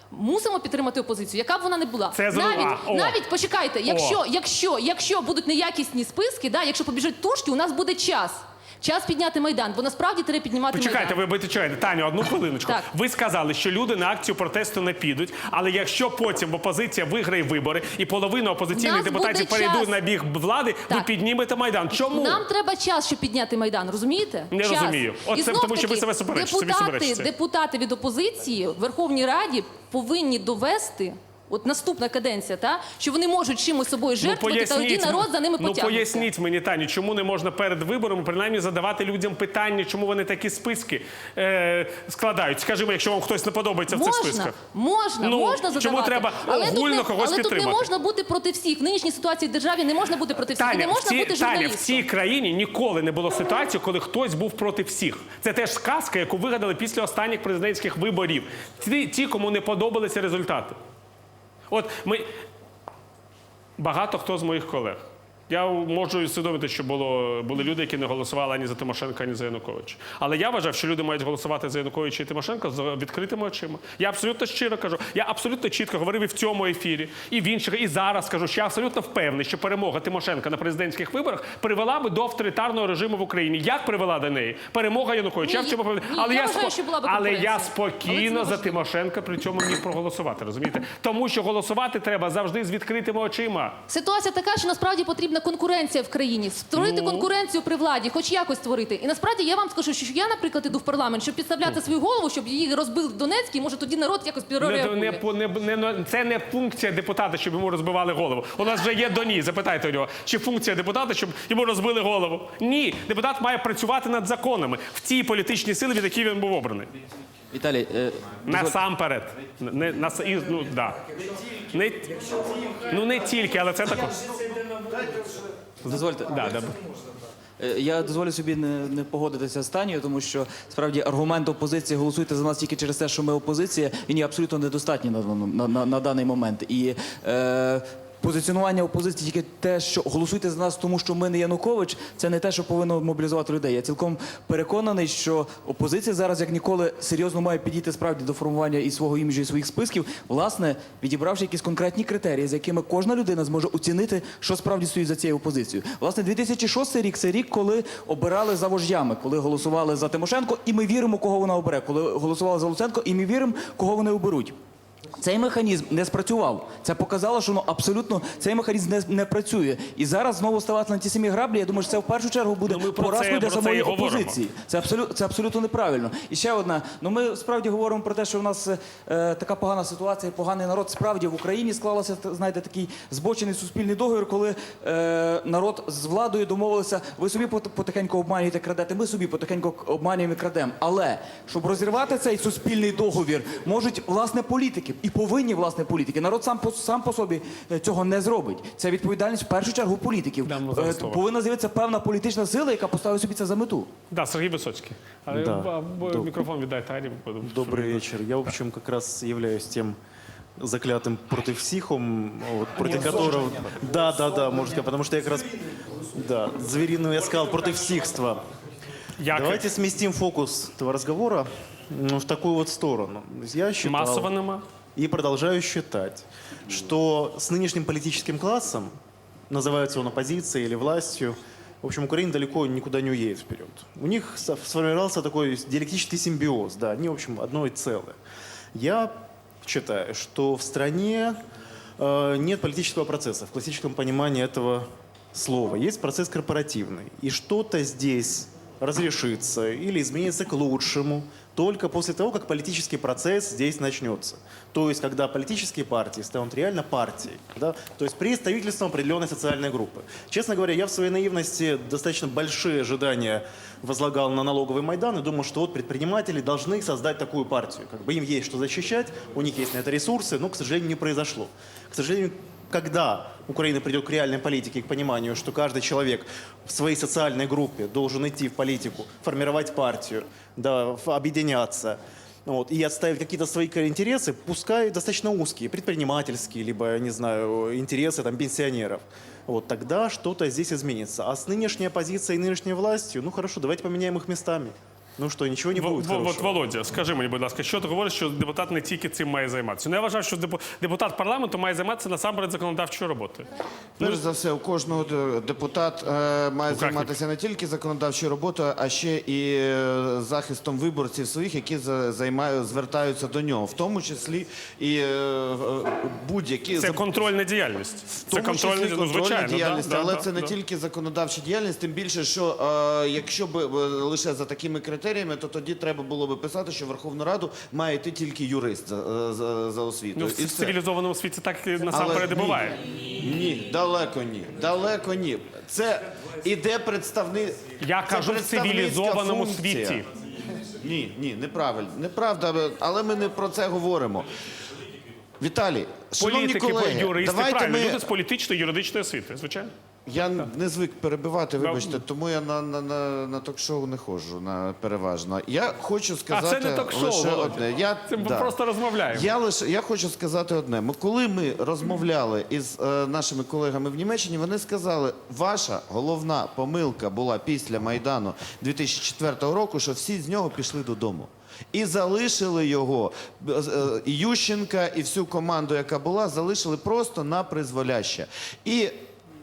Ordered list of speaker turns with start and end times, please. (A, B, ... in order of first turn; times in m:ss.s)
0:00.1-0:11.2 A
0:02.1-0:03.2 B
0:03.8-0:04.2 B
0:10.7-0:22.4 B
0:18.7-0:20.0 A
0:21.9-0:36.3 A
0:24.5-0:27.3 B
0:34.2-0:44.6 B
0:43.9-0:52.0 A
0:45.2-0:47.9 B
0:50.5-1:00.8 B
1:01.7-1:02.3 B
1:03.8-1:33.8 B
1:25.4-1:28.8 A
1:33.9-1:45.2 A
1:36.8-1:37.3 B
1:44.6-1:56.9 B
1:57.5-1:58.8 C
1:58.4-2:01.0 B
2:01.7-2:02.3 B
2:02.5-2:02.8 C
2:02.9-2:04.2 B
2:05.8-2:06.7 C
2:06.3-2:06.7 B
2:07.6-2:44.6 C
2:45.2-3:23.9 C
2:52.7-2:54.4 B
3:20.4-3:21.2 B
3:24.1-3:28.1 B
3:25.3-3:26.4 D
3:27.4-3:30.0 D
3:30.6-3:35.6 D
3:36.1-3:38.4 D
3:39.2-3:39.7 B
3:39.3-3:44.3 D
3:43.8-3:44.6 B
3:45.0-3:48.9 D
3:49.5-3:58.2 D
3:58.8-3:59.1 D
3:59.6-4:01.4 D
4:02.0-4:56.6 D
4:55.7-5:03.5 B
5:04.0-5:17.0 E
5:06.7-5:07.2 B
5:16.8-5:20.5 B
5:18.2-5:30.8 E
5:30.2-5:32.8 B
5:31.9-5:40.0 E
5:37.8-5:40.0 B
5:40.7-5:44.3 E
5:45.4-5:48.1 E
5:46.2-5:49.7 B
5:50.1-6:19.0 E
5:51.6-5:52.0 B
5:56.3-5:59.3 B